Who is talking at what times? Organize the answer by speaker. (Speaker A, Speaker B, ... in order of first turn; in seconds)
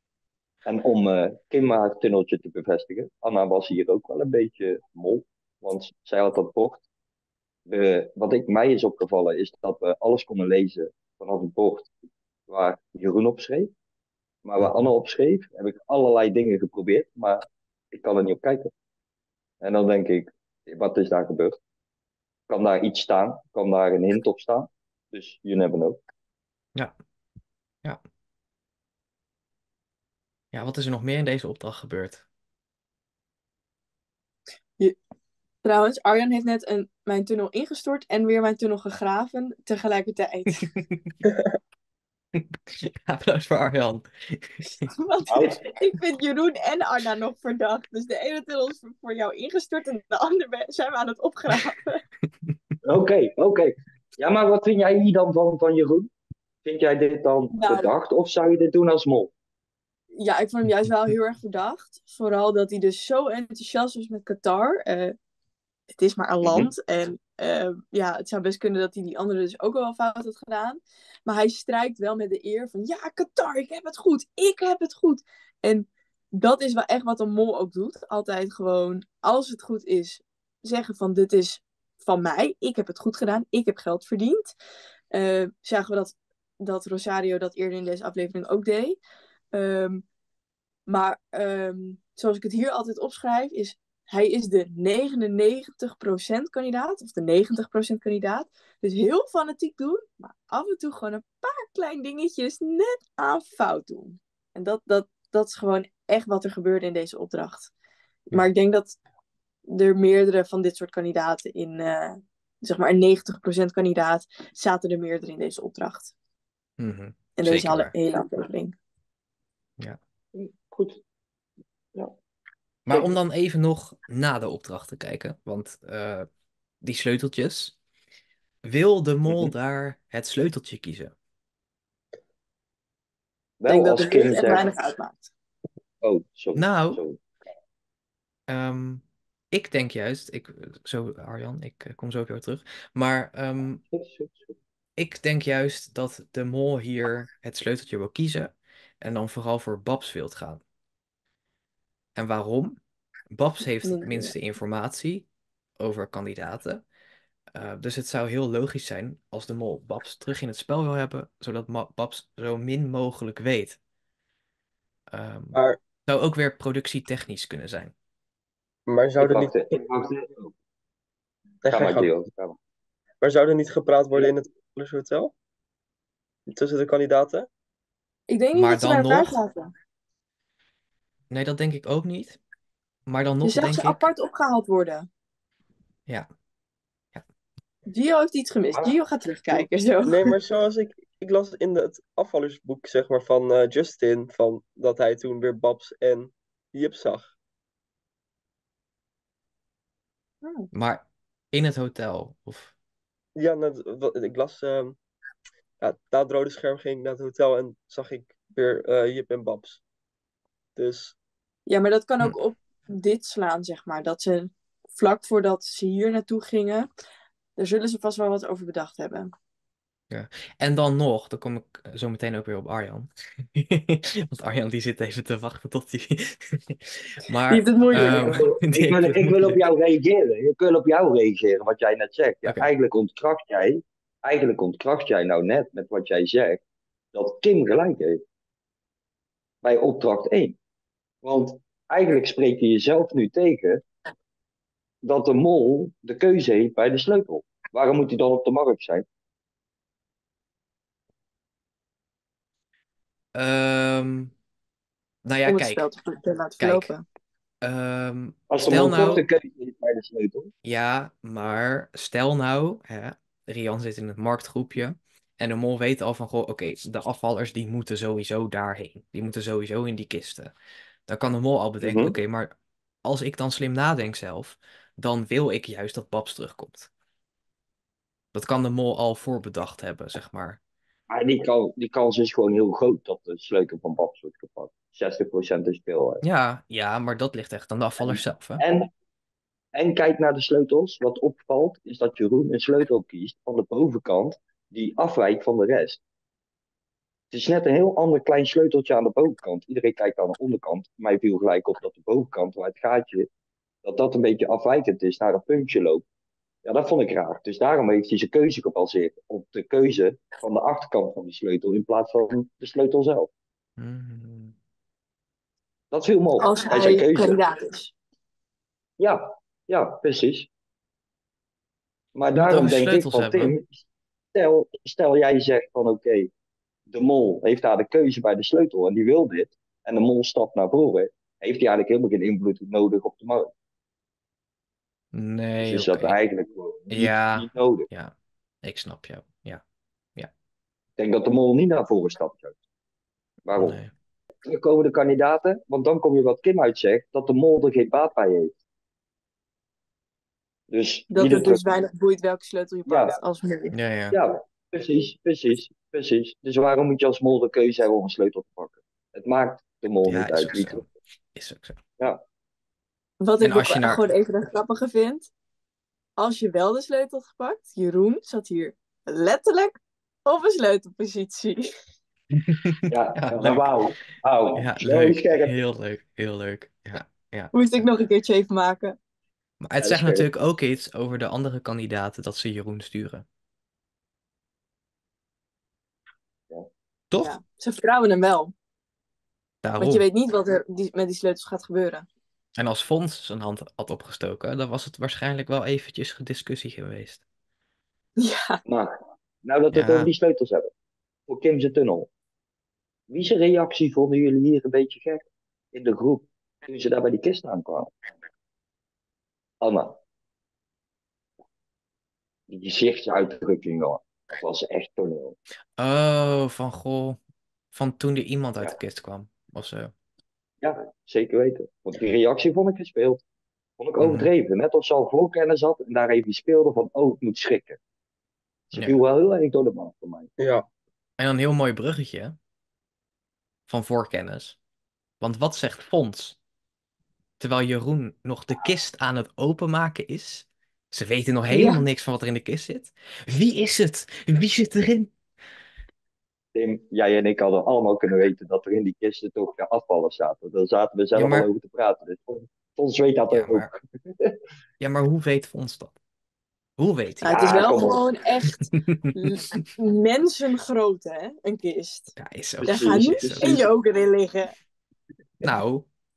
Speaker A: 0.7-6.8, 7.7-11.9, 12.5-13.7, 14.4-18.7, 19.6-21.6, 22.5-26.0, 45.3-45.6, 52.8-56.1, 56.6-59.3, 120.3-121.0, 122.9-123.2, 133.6-134.7, 136.0-137.2, 143.9-144.5, 169.2-170.5, 171.7-172.6, 227.9-236.6, 237.1-238.2, 239.6-240.6, 241.2-243.9, 245.0-249.1, 258.5-260.5, 271.8-272.1, 281.1-286.2, 288.0-288.9, 289.7-296.0, 297.3-303.3, 303.8-306.0, 306.6-313.3, 315.9-317.4, 319.0-320.5, 322.1-326.3, 326.9-333.5, 335.6-337.9, 341.0-342.6, 343.5-343.8, 344.4-348.6, 350.7-351.6, 352.9-353.2, 354.1-360.8, 372.9-375.6, 379.8-380.3, 398.6-400.7, 401.3-402.1, 403.1-407.9, 409.6-410.0, 412.5-415.4, 420.6-423.2, 423.8-427.8, 428.7-430.3, 446.5-454.4, 457.3-458.0, 462.6-463.7
Speaker B: 14.6-14.9, 30.5-32.2, 40.8-41.2, 42.4-44.9, 116.8-117.9, 122.9-126.3, 126.8-127.8, 128.6-131.1, 136.6-137.0, 138.5-143.8, 145.0-150.6, 152.2-152.8, 153.3-155.3, 155.8-156.8, 157.5-163.8, 165.1-167.9, 178.5-179.4, 181.3-182.4, 183.1-184.1, 200.7-202.7, 220.1-229.6, 253.3-254.3, 255.2-255.9, 256.6-256.9, 257.6-259.2, 260.6-270.5, 271.1-276.9, 278.3-280.6, 286.2-288.6, 313.8-314.6, 322.4-323.5, 335.1-336.2, 336.9-339.6, 343.6-343.9, 353.7-354.2, 360.0-361.8, 363.4-364.1, 372.5-373.7, 374.6-377.8, 379.6-383.2, 387.1-387.4, 389.6-390.1, 392.6-397.2, 399.7-400.1, 415.8-417.2, 417.7-419.9, 424.0-424.3, 428.7-429.0, 431.2-432.4, 433.7-434.6, 435.2-436.4, 437.4-445.1, 451.1-451.5, 453.3-453.7, 454.8-455.9, 456.8-457.6, 458.8-459.1, 462.2-463.6, 465.4-465.9
Speaker C: 35.6-40.6, 44.9-52.0, 57.6-57.9, 60.1-65.2, 66.0-84.5, 85.1-89.0, 89.5-90.0, 90.9-107.7, 108.3-109.0, 109.7-116.1, 117.4-118.7, 133.7-135.3, 153.8-154.3, 178.3-179.7, 183.4-185.1, 187.9-190.3, 200.4-200.7, 211.7-216.9, 217.6-219.3, 227.5-228.4, 255.5-257.0, 316.4-317.9, 351.1-353.8, 363.2-365.3, 366.2-369.7, 370.3-371.7, 377.5-379.0, 387.2-388.5, 389.8-392.1, 398.2-398.6, 441.5-441.8, 457.2-464.6
Speaker D: 168.9-169.6, 171.7-172.1, 173.2-175.3, 176.5-177.5, 190.1-197.3, 203.4-205.0, 205.8-209.8, 210.8-211.1, 430.4-430.6